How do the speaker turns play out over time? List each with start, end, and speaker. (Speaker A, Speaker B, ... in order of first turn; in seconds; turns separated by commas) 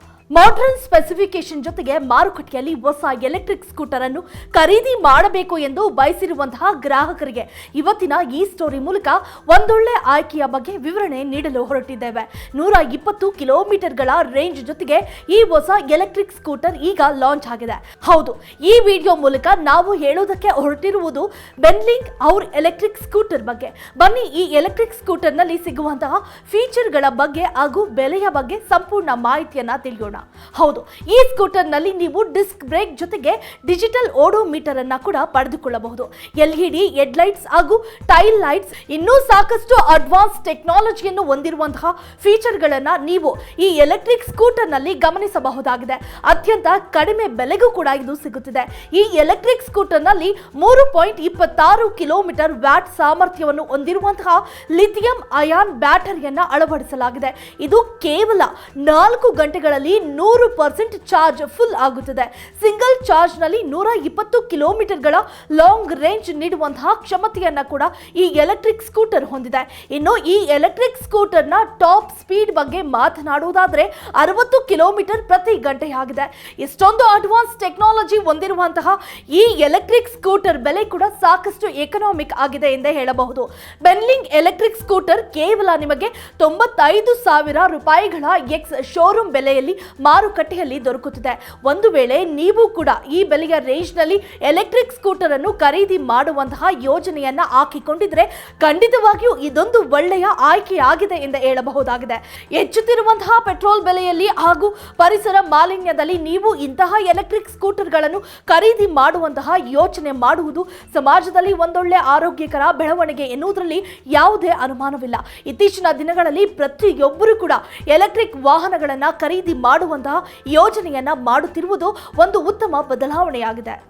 Speaker A: 0.3-123.8